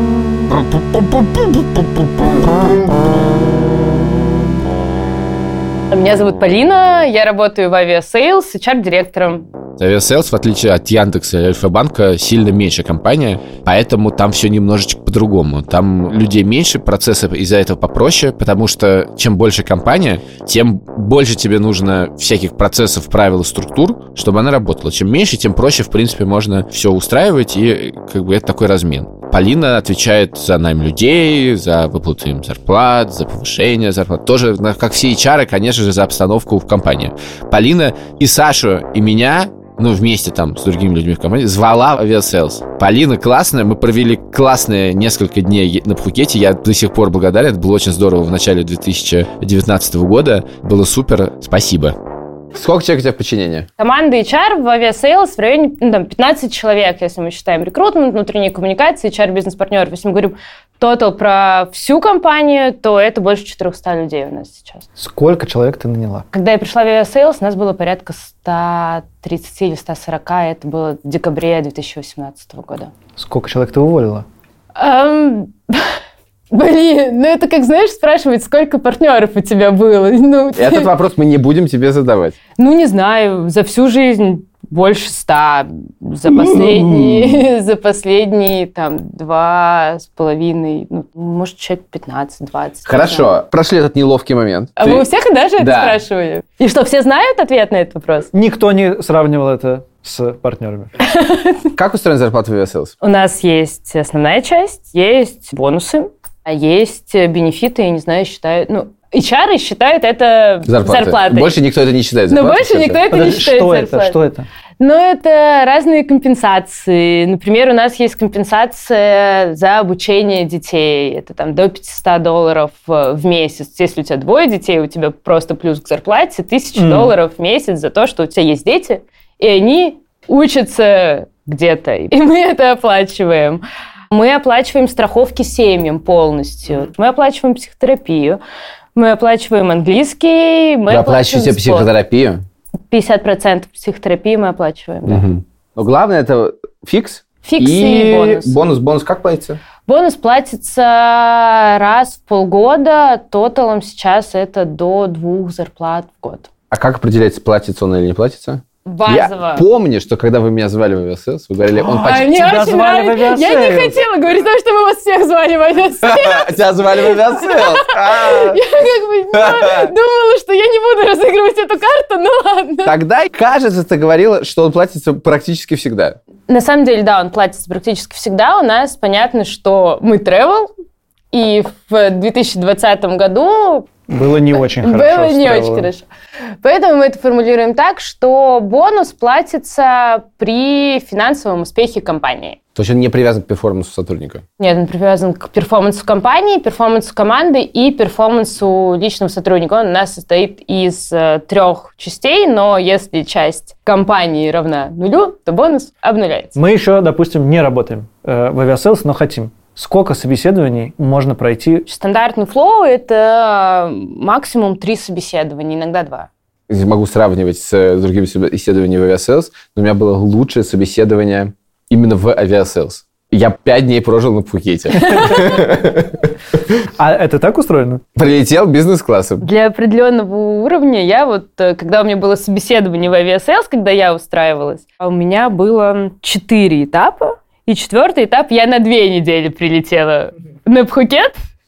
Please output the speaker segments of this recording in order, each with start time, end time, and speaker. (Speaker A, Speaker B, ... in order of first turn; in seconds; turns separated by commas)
Speaker A: 5.9-9.5, Speaker B: 9.8-52.0, Speaker C: 52.5-53.7, Speaker A: 53.8-64.9, Speaker D: 65.0-66.2, Speaker A: 66.3-72.9, Speaker D: 73.2-74.3, Speaker A: 74.8-76.0, Speaker A: 76.5-80.9, Speaker C: 80.5-82.4, Speaker A: 82.6-93.3, Speaker C: 92.8-95.1, Speaker A: 94.8-98.3, Speaker C: 95.6-96.0, Speaker D: 98.3-100.9, Speaker A: 101.0-101.6, Speaker C: 101.8-103.0, Speaker A: 103.0-111.6, Speaker C: 110.7-113.0, Speaker A: 112.3-114.2, Speaker D: 113.1-114.5, Speaker A: 114.8-138.4, Speaker D: 126.8-127.2, Speaker A: 138.9-141.9, Speaker C: 140.9-142.4, Speaker A: 142.9-145.3, Speaker C: 145.1-149.6, Speaker A: 147.4-148.6, Speaker A: 149.9-156.5, Speaker C: 156.7-162.4, Speaker A: 158.9-159.7, Speaker A: 161.8-172.9, Speaker D: 162.3-164.0, Speaker C: 166.0-168.6, Speaker C: 169.4-169.9, Speaker C: 172.8-176.2, Speaker A: 176.5-180.7, Speaker A: 181.3-183.9, Speaker D: 184.1-185.9, Speaker A: 184.8-186.1, Speaker A: 186.6-192.6, Speaker C: 192.8-194.4, Speaker A: 194.6-206.6, Speaker D: 206.6-211.8, Speaker A: 211.9-216.3, Speaker C: 216.7-226.2, Speaker D: 225.1-225.6, Speaker D: 227.0-228.0, Speaker C: 228.2-229.4, Speaker A: 229.4-241.4